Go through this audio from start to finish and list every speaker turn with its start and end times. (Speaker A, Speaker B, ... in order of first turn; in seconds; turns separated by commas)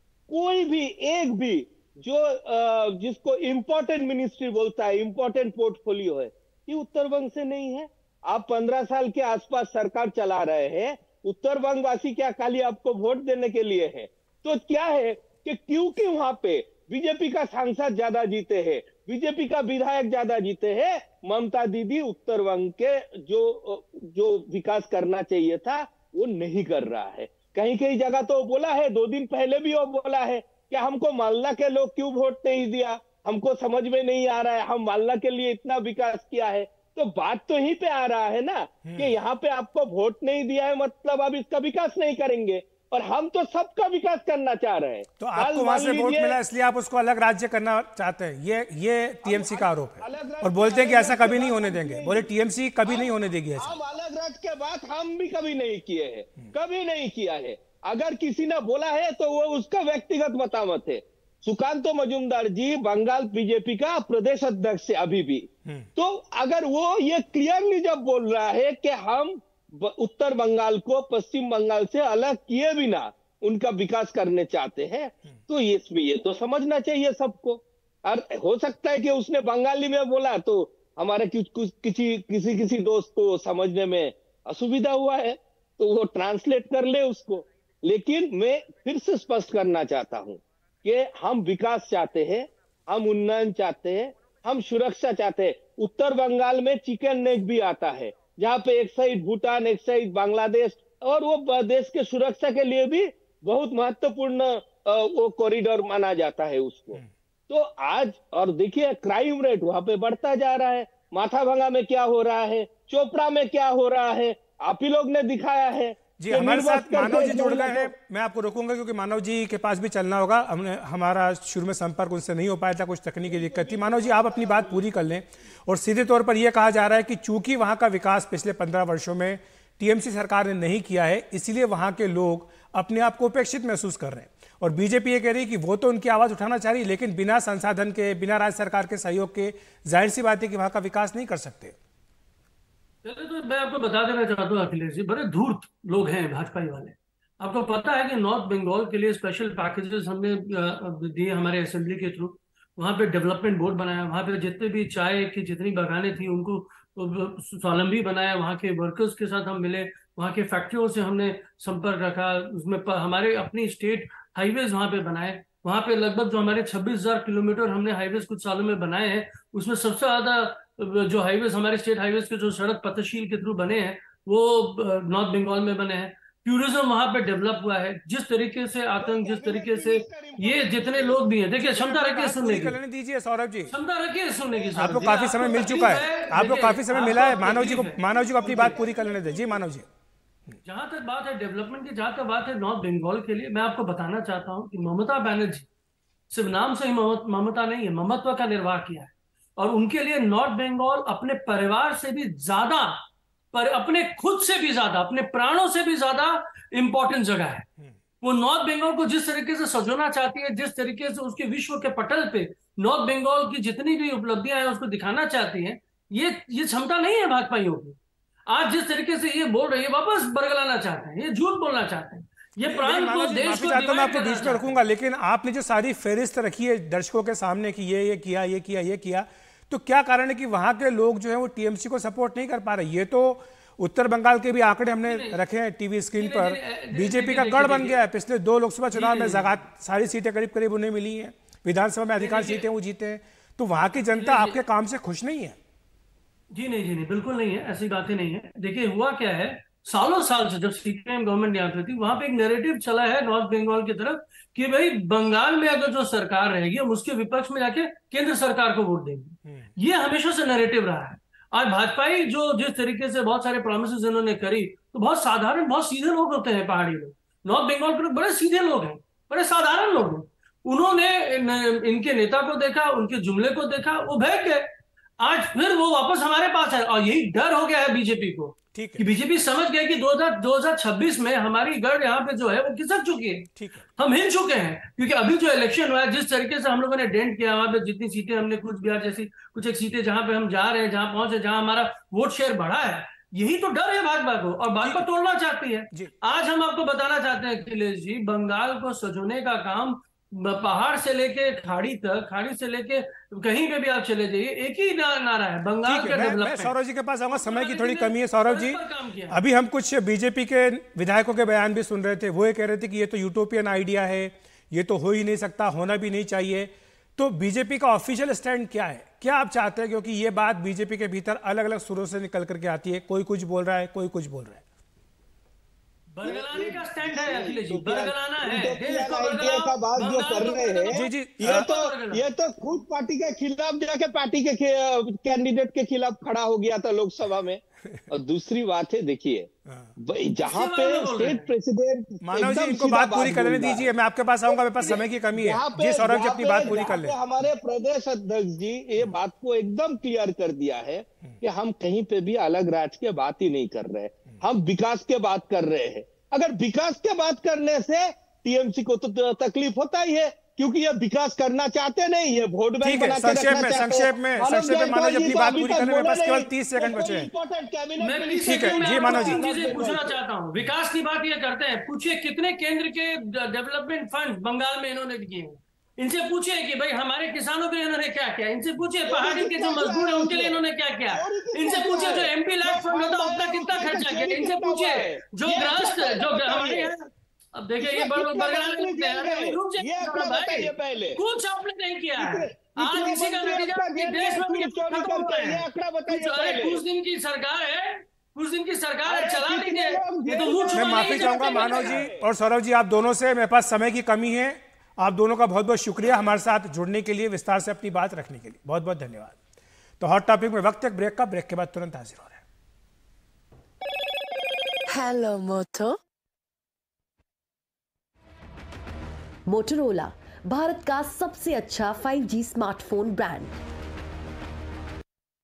Speaker A: 0.3-46.4, Speaker B: 38.9-39.1, Speaker B: 45.2-53.8, Speaker A: 49.2-52.3, Speaker A: 52.9-117.9, Speaker B: 116.2-141.8, Speaker A: 123.2-124.9, Speaker C: 143.0-182.8, Speaker A: 179.0-181.4, Speaker B: 181.6-183.7, Speaker C: 183.7-188.0, Speaker A: 184.5-186.0, Speaker B: 184.8-189.9, Speaker A: 187.0-189.6, Speaker C: 190.6-195.7, Speaker C: 196.3-207.7, Speaker C: 208.2-218.0, Speaker C: 218.5-224.7, Speaker B: 222.7-245.6, Speaker C: 235.0-235.4, Speaker C: 236.2-238.0, Speaker C: 238.9-239.5, Speaker C: 242.2-242.7, Speaker C: 244.2-244.6, Speaker C: 246.5-274.7, Speaker B: 259.4-259.7, Speaker C: 275.2-306.7, Speaker B: 278.7-279.1, Speaker B: 283.6-283.9, Speaker B: 294.8-295.1, Speaker B: 305.9-308.8, Speaker C: 307.3-309.4, Speaker B: 309.3-324.6, Speaker C: 326.1-332.2, Speaker A: 326.2-343.9, Speaker B: 330.9-331.6, Speaker B: 339.7-339.9, Speaker C: 340.5-341.5, Speaker B: 342.2-347.2, Speaker A: 344.5-370.2, Speaker B: 362.8-367.3, Speaker C: 368.0-402.0, Speaker B: 368.4-369.4, Speaker A: 379.1-386.9, Speaker A: 387.8-391.2, Speaker A: 392.1-396.8, Speaker A: 399.1-402.3, Speaker B: 400.7-409.4, Speaker B: 410.0-412.4, Speaker D: 414.9-416.0, Speaker D: 419.5-423.5